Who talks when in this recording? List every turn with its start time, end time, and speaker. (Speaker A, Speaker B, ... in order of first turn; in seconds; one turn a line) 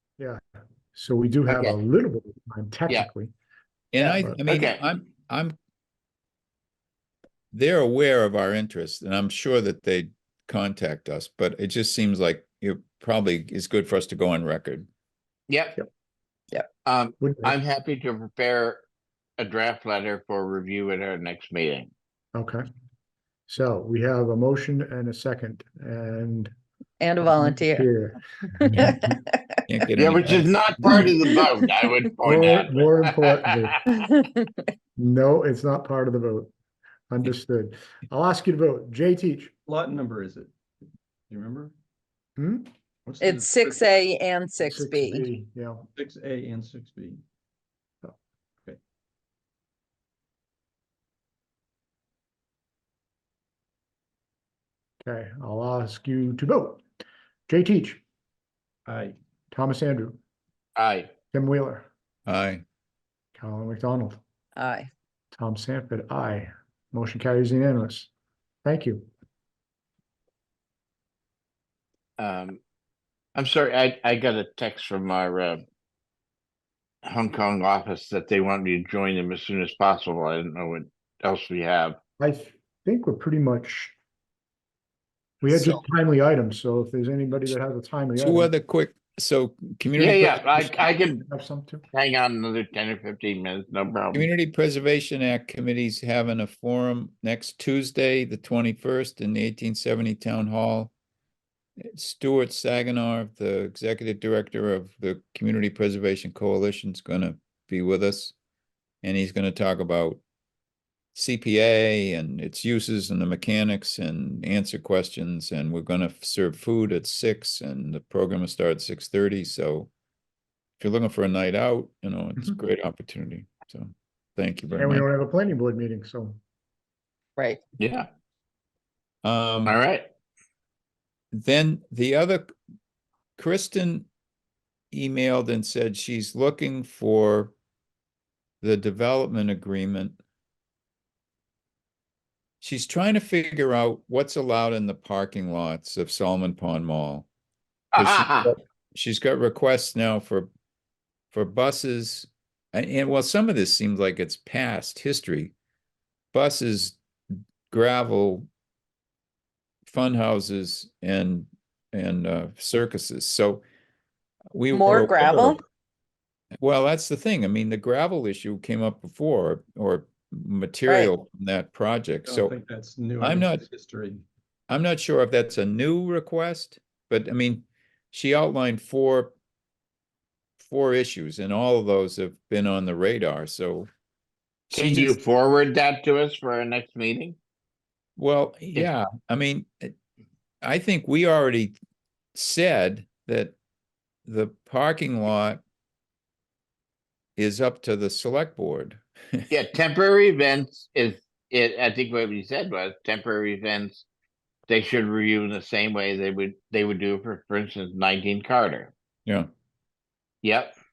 Speaker A: 0.9-3.3
Speaker B: 3.9-5.5
Speaker C: 4.0-4.8
Speaker A: 4.1-4.4
Speaker B: 7.5-14.9
Speaker C: 15.5-15.8
Speaker C: 16.8-18.8
Speaker A: 17.2-17.5
Speaker C: 19.4-21.9
Speaker A: 22.3-22.6
Speaker A: 23.5-26.5
Speaker D: 27.0-27.9
Speaker A: 27.2-29.1
Speaker D: 28.6-29.3
Speaker B: 29.7-31.0
Speaker C: 30.0-33.8
Speaker A: 32.2-33.8
Speaker D: 33.9-34.6
Speaker A: 35.0-36.5
Speaker A: 37.1-39.5
Speaker E: 39.7-40.5
Speaker E: 41.3-41.7
Speaker A: 42.4-42.7
Speaker E: 43.0-43.8
Speaker D: 43.2-45.2
Speaker A: 44.6-45.8
Speaker E: 45.9-47.2
Speaker A: 55.0-56.8
Speaker A: 57.5-58.0
Speaker E: 58.9-59.2
Speaker A: 59.5-60.2
Speaker C: 60.8-61.1
Speaker A: 61.3-61.9
Speaker B: 62.3-62.6
Speaker A: 63.3-64.2
Speaker D: 64.5-64.9
Speaker A: 65.3-68.1
Speaker A: 68.6-69.1
Speaker C: 72.2-72.6
Speaker C: 73.3-75.6
Speaker C: 77.0-82.0
Speaker A: 82.2-83.9
Speaker A: 85.4-88.5
Speaker B: 85.5-85.8
Speaker B: 88.2-90.5
Speaker C: 90.0-91.2
Speaker A: 90.5-91.8
Speaker C: 91.9-94.3
Speaker B: 94.1-100.9
Speaker B: 101.9-108.3
Speaker B: 109.0-110.2
Speaker B: 111.1-119.9
Speaker B: 120.8-125.0
Speaker A: 124.8-126.4
Speaker C: 127.8-128.1
Speaker B: 129.2-129.8
Speaker C: 129.7-130.1
Speaker B: 131.3-132.5
Speaker B: 133.4-134.1
Speaker B: 134.9-137.5
Speaker B: 138.6-140.2
Speaker B: 142.6-147.3
Speaker C: 147.9-148.5
Speaker B: 148.0-150.5
Speaker B: 151.3-155.5
Speaker B: 156.3-157.0
Speaker B: 157.7-158.5
Speaker B: 159.9-163.6
Speaker B: 164.5-165.6
Speaker D: 164.7-165.6
Speaker B: 166.6-172.5
Speaker D: 170.9-171.1
Speaker E: 172.2-174.2
Speaker B: 173.2-173.6
Speaker B: 174.7-179.3
Speaker B: 180.6-183.9
Speaker B: 184.7-185.2
Speaker C: 184.7-187.4
Speaker B: 188.2-189.9
Speaker B: 190.6-191.7
Speaker B: 192.3-193.5
Speaker B: 194.2-195.6
Speaker B: 197.4-199.5
Speaker C: 199.5-204.1
Speaker C: 204.7-208.9
Speaker C: 210.4-210.7